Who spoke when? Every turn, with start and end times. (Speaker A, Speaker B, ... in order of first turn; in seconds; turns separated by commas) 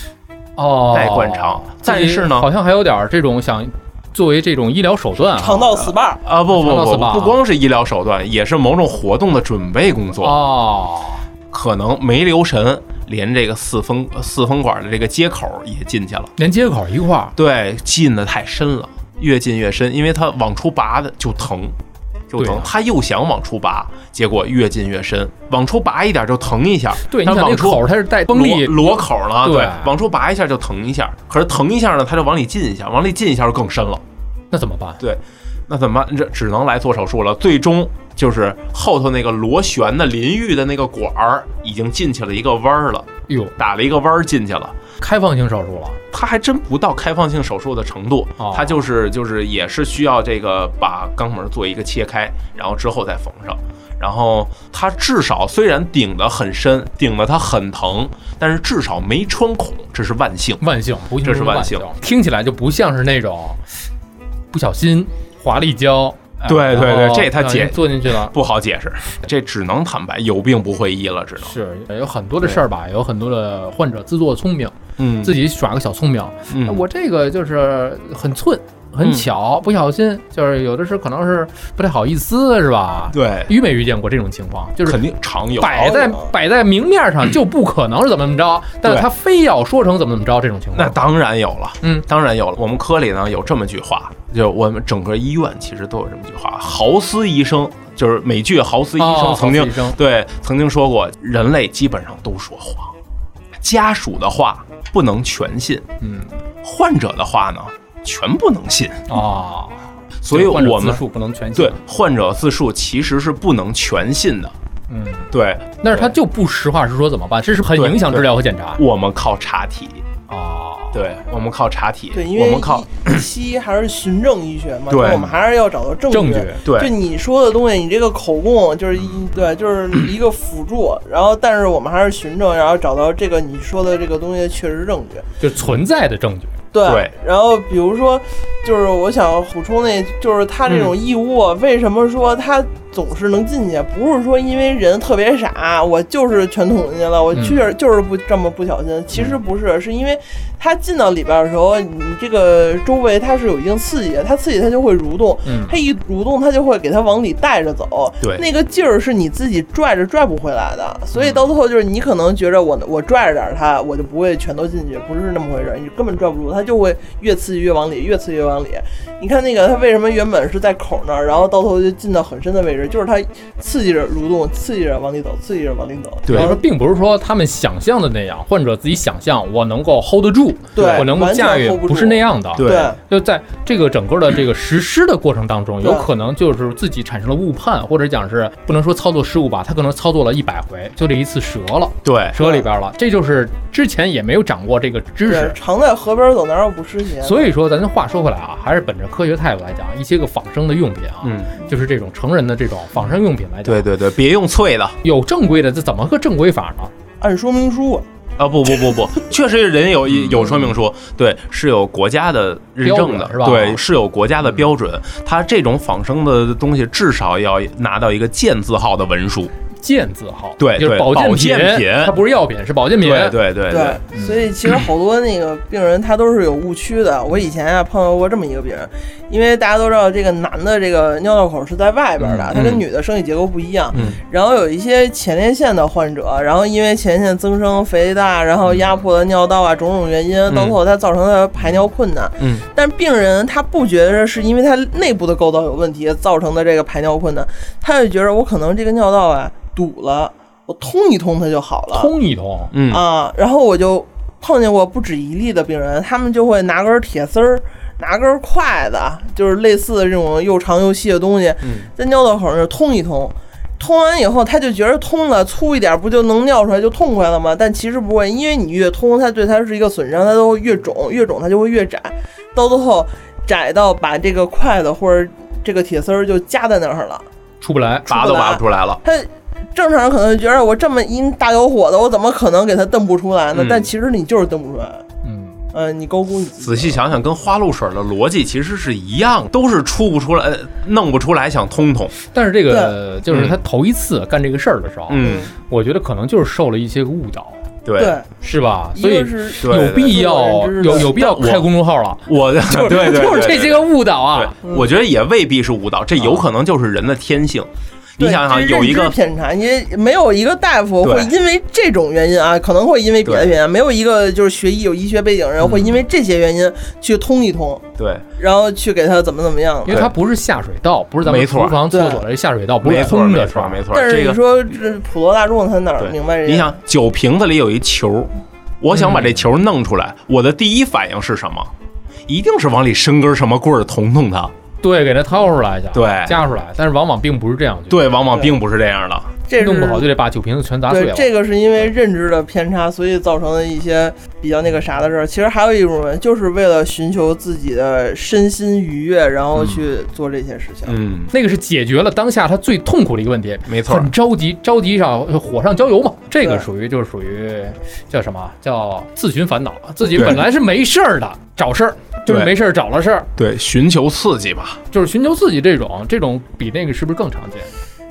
Speaker A: 0.6-5.9, Speaker B: 0.9-2.5, Speaker C: 5.3-6.2, Speaker B: 6.2-10.4, Speaker A: 6.5-7.4, Speaker A: 10.2-11.2, Speaker B: 11.5-16.3, Speaker A: 16.4-17.3, Speaker B: 17.4-21.8, Speaker B: 22.3-34.0, Speaker A: 22.4-22.7, Speaker A: 27.1-29.9, Speaker A: 34.5-35.0, Speaker B: 35.0-44.8, Speaker A: 43.3-43.5, Speaker A: 45.0-46.0, Speaker B: 46.1-60.6, Speaker A: 48.4-48.8, Speaker A: 60.6-63.6, Speaker B: 61.2-61.9, Speaker A: 64.5-68.3, Speaker B: 66.5-71.5, Speaker A: 71.4-85.0, Speaker B: 75.0-75.3, Speaker B: 76.5-76.8, Speaker B: 79.0-79.2, Speaker B: 83.1-83.5, Speaker B: 84.8-86.0, Speaker A: 85.6-91.0, Speaker C: 85.8-86.3, Speaker B: 90.7-102.9, Speaker A: 99.0-100.0, Speaker B: 103.6-105.8, Speaker A: 106.0-106.3, Speaker B: 106.6-109.1, Speaker A: 109.1-111.8, Speaker B: 110.2-111.0, Speaker B: 111.5-114.5, Speaker A: 114.9-118.8, Speaker B: 115.3-116.1, Speaker B: 117.7-120.0, Speaker A: 120.3-121.0, Speaker B: 120.9-123.2, Speaker C: 122.1-135.2, Speaker B: 124.9-125.3, Speaker A: 126.1-126.6, Speaker B: 126.7-126.9, Speaker A: 135.4-136.5, Speaker C: 136.7-176.6, Speaker B: 136.8-137.1, Speaker B: 140.7-140.9, Speaker A: 147.3-147.7, Speaker A: 155.4-155.8, Speaker A: 161.2-161.5, Speaker B: 176.2-176.6, Speaker A: 176.3-195.6, Speaker C: 180.7-183.0, Speaker B: 180.8-181.1, Speaker B: 182.6-182.9, Speaker C: 185.8-186.1, Speaker B: 192.0-192.4, Speaker C: 195.3-197.5, Speaker A: 197.2-203.9, Speaker B: 201.2-201.5, Speaker B: 203.6-205.0, Speaker A: 205.0-206.9, Speaker C: 207.2-208.1, Speaker B: 208.4-219.5, Speaker A: 212.8-213.8, Speaker A: 219.8-223.4, Speaker B: 220.6-222.2, Speaker B: 223.0-224.0, Speaker C: 223.7-252.1, Speaker A: 224.1-224.4, Speaker B: 232.2-232.8, Speaker B: 233.9-234.2, Speaker B: 240.5-240.8, Speaker B: 242.4-242.6, Speaker A: 251.9-252.7, Speaker B: 252.7-253.0, Speaker C: 252.9-277.2, Speaker B: 261.6-261.9, Speaker A: 277.6-278.1, Speaker B: 278.1-279.0, Speaker C: 278.1-285.0, Speaker B: 283.5-283.9, Speaker A: 285.2-285.6, Speaker C: 285.7-287.0, Speaker B: 286.6-292.1, Speaker A: 292.3-297.6, Speaker B: 293.3-293.6, Speaker B: 295.1-295.5, Speaker C: 295.2-295.5, Speaker B: 297.8-298.2, Speaker C: 298.0-298.3, Speaker A: 298.4-302.2, Speaker C: 298.9-301.4, Speaker B: 299.6-300.2, Speaker B: 300.9-301.7, Speaker B: 302.2-309.1, Speaker C: 302.7-303.7, Speaker A: 302.8-304.6, Speaker A: 306.2-306.4, Speaker C: 308.2-317.9, Speaker B: 311.0-311.3, Speaker B: 313.2-313.5, Speaker B: 318.0-318.2, Speaker C: 318.4-320.1, Speaker A: 319.8-323.8, Speaker B: 321.2-321.8, Speaker C: 321.9-322.2, Speaker B: 322.8-324.4, Speaker C: 323.9-326.8, Speaker B: 326.0-331.7, Speaker A: 328.9-329.4, Speaker B: 332.3-334.5, Speaker A: 334.8-338.1, Speaker B: 335.9-336.4, Speaker B: 337.9-339.3, Speaker C: 339.5-340.1, Speaker A: 339.6-341.3, Speaker C: 340.9-350.9, Speaker A: 349.6-349.8, Speaker B: 350.9-351.3, Speaker A: 351.3-363.3, Speaker B: 353.6-354.1, Speaker B: 363.4-364.8, Speaker A: 364.9-367.7